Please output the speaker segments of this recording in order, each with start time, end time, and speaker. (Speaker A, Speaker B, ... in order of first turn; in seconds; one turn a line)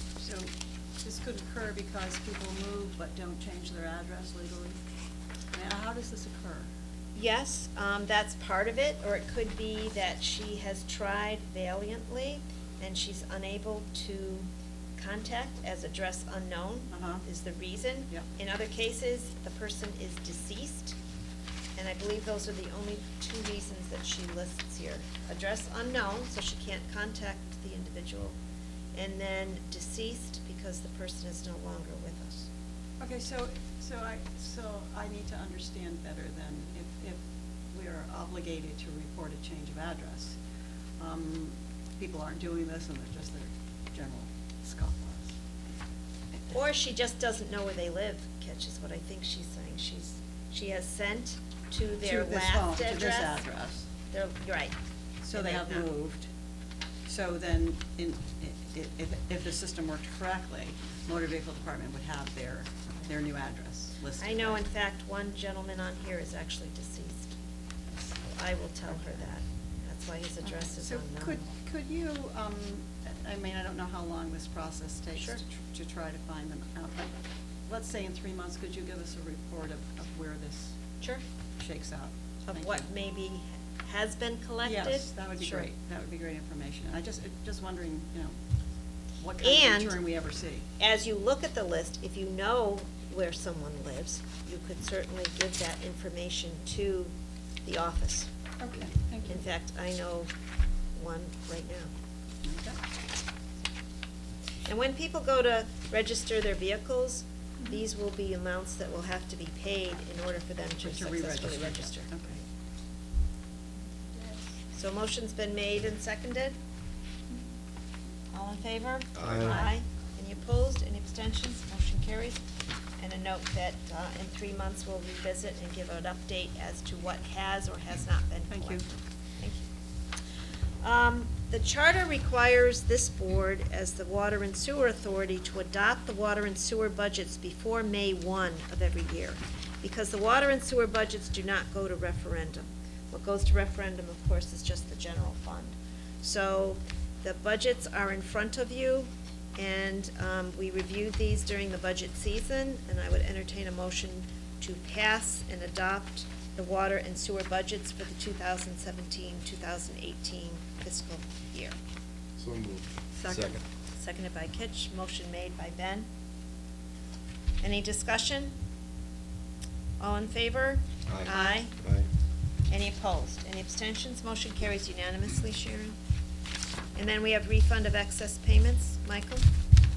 Speaker A: 0.2-4.8
Speaker A: 5.5-6.7
Speaker B: 7.1-20.9
Speaker A: 16.9-17.2
Speaker B: 21.8-28.4
Speaker B: 28.9-32.5
Speaker A: 33.0-37.2
Speaker A: 37.7-40.4
Speaker A: 41.0-45.4
Speaker B: 46.5-53.4
Speaker A: 52.0-53.9
Speaker B: 54.1-54.8
Speaker A: 55.2-56.3
Speaker B: 55.3-55.9
Speaker A: 57.0-64.6
Speaker B: 64.2-67.3
Speaker B: 68.2-71.4
Speaker A: 68.8-69.3
Speaker A: 70.4-77.1
Speaker B: 75.2-75.4
Speaker A: 77.7-80.8
Speaker A: 81.6-82.9
Speaker B: 82.5-85.7
Speaker A: 84.6-88.4
Speaker A: 89.2-90.6
Speaker B: 89.4-90.0
Speaker B: 90.8-97.1
Speaker B: 97.6-98.3
Speaker A: 98.6-99.5
Speaker B: 99.3-100.3
Speaker B: 100.9-101.9
Speaker A: 102.4-102.8
Speaker B: 104.6-112.4
Speaker A: 110.8-112.4
Speaker A: 114.1-114.4
Speaker B: 114.7-116.5
Speaker B: 118.3-122.4
Speaker C: 119.2-119.6
Speaker A: 119.2-119.7
Speaker B: 123.0-128.8
Speaker A: 128.5-128.8
Speaker B: 129.4-129.7
Speaker B: 130.8-161.8
Speaker C: 162.4-163.6
Speaker A: 163.2-163.6
Speaker B: 163.9-166.1
Speaker B: 167.6-168.5
Speaker B: 170.0-171.8
Speaker C: 171.1-172.1
Speaker A: 171.3-171.6
Speaker B: 172.7-175.9
Speaker B: 176.9-179.4